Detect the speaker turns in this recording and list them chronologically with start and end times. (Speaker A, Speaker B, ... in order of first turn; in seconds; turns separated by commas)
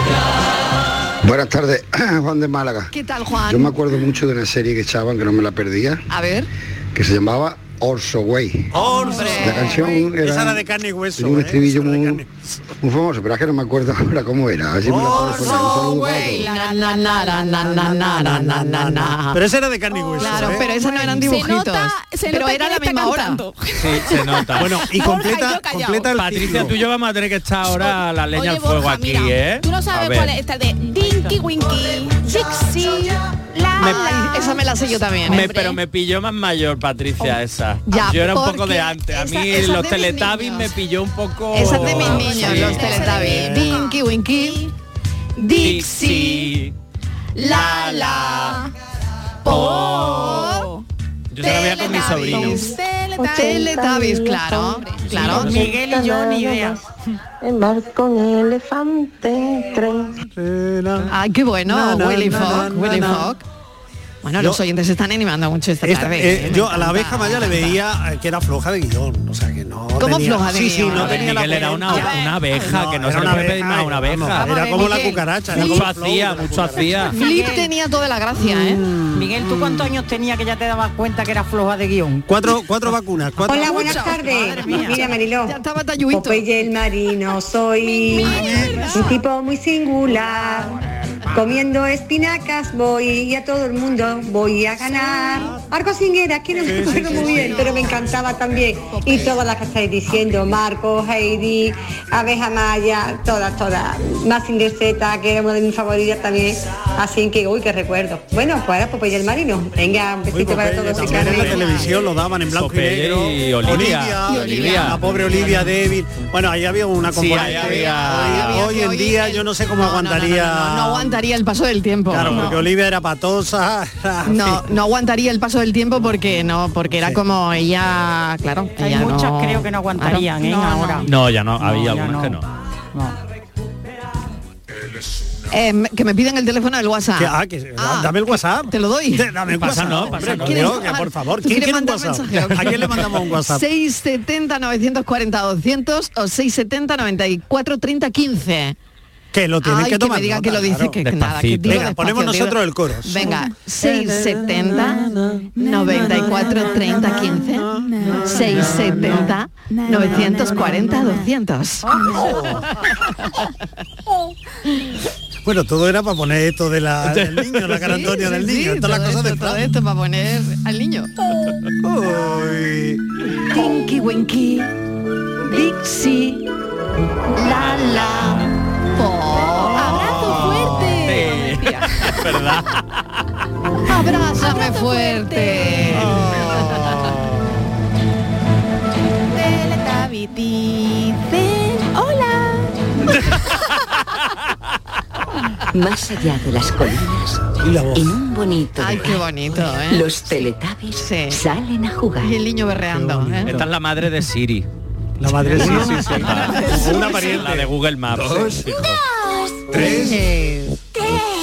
Speaker A: 1.2-2.9, Speaker B: 2.9-3.8, Speaker A: 3.5-6.0, Speaker B: 6.1-6.5, Speaker A: 6.9-8.7, Speaker C: 8.7-12.3, Speaker B: 8.8-10.0, Speaker A: 9.4-10.6, Speaker A: 11.2-12.2, Speaker A: 12.8-16.4, Speaker C: 14.8-15.8, Speaker B: 15.1-19.4, Speaker D: 16.1-17.2, Speaker C: 17.6-21.1, Speaker D: 19.9-26.1, Speaker B: 20.2-23.4, Speaker E: 23.8-24.8, Speaker C: 24.5-26.8, Speaker E: 26.1-30.3, Speaker D: 27.8-34.7, Speaker B: 33.8-35.6, Speaker E: 35.2-43.5, Speaker D: 35.3-35.7, Speaker B: 37.9-40.7, Speaker B: 41.5-44.7, Speaker D: 41.9-44.6, Speaker D: 45.4-46.4, Speaker B: 45.5-46.1, Speaker E: 45.6-46.7, Speaker D: 47.4-48.7, Speaker E: 47.5-48.6, Speaker B: 47.5-47.9, Speaker E: 49.5-50.5, Speaker D: 49.5-50.8, Speaker E: 51.3-52.7, Speaker D: 51.4-54.0, Speaker B: 51.9-52.6, Speaker B: 53.3-55.6, Speaker D: 54.7-55.0, Speaker E: 55.0-55.7, Speaker F: 55.2-56.8, Speaker C: 60.2-61.1, Speaker B: 61.1-63.4, Speaker C: 61.6-63.3, Speaker B: 64.2-67.8, Speaker C: 65.8-77.1, Speaker B: 70.0-72.4, Speaker E: 70.9-74.5, Speaker B: 74.3-75.8, Speaker E: 75.5-77.2, Speaker F: 77.0-77.7, Speaker B: 77.1-78.8, Speaker C: 78.3-79.9, Speaker F: 79.1-82.3, Speaker C: 82.3-83.9, Speaker G: 83.4-85.6, Speaker F: 83.5-85.1, Speaker B: 83.7-84.2, Speaker B: 85.4-86.4, Speaker G: 86.1-90.8, Speaker D: 87.9-89.0, Speaker C: 88.3-88.8, Speaker B: 88.5-88.8, Speaker G: 91.3-111.9, Speaker C: 96.6-98.0, Speaker B: 97.3-98.0, Speaker B: 98.9-99.4, Speaker C: 110.3-121.2, Speaker E: 111.0-111.8, Speaker E: 112.5-115.5, Speaker B: 114.3-115.0, Speaker E: 117.1-118.6, Speaker B: 117.4-122.6, Speaker C: 122.1-124.7, Speaker E: 122.2-122.4, Speaker B: 124.2-131.0, Speaker C: 126.9-127.2, Speaker F: 128.8-131.1, Speaker E: 131.0-132.4, Speaker F: 131.6-132.4, Speaker B: 135.5-148.7, Speaker C: 137.2-143.6, Speaker E: 139.6-140.8, Speaker C: 149.3-151.0, Speaker B: 149.6-155.1, Speaker E: 151.0-151.8, Speaker C: 151.6-154.8, Speaker B: 155.6-161.9, Speaker C: 157.0-159.0, Speaker D: 158.1-158.6, Speaker D: 159.7-161.2, Speaker C: 162.1-162.7, Speaker C: 165.4-169.7, Speaker E: 167.1-167.8, Speaker B: 167.8-171.1, Speaker C: 171.8-173.0, Speaker B: 173.5-174.7, Speaker B: 175.4-176.4, Speaker B: 177.4-180.4, Speaker E: 177.5-178.5, Speaker D: 179.4-182.0, Speaker C: 179.7-181.0, Speaker E: 180.8-183.0, Speaker B: 183.9-187.1, Speaker D: 184.2-186.4, Speaker C: 185.9-187.7, Speaker D: 189.3-192.8, Speaker H: 195.7-202.3, Speaker C: 197.6-198.2, Speaker B: 198.8-200.1, Speaker B: 201.0-201.4, Speaker B: 202.2-203.6, Speaker C: 202.9-203.7, Speaker E: 203.4-204.7, Speaker C: 205.2-207.7, Speaker E: 205.4-209.0, Speaker C: 209.8-210.2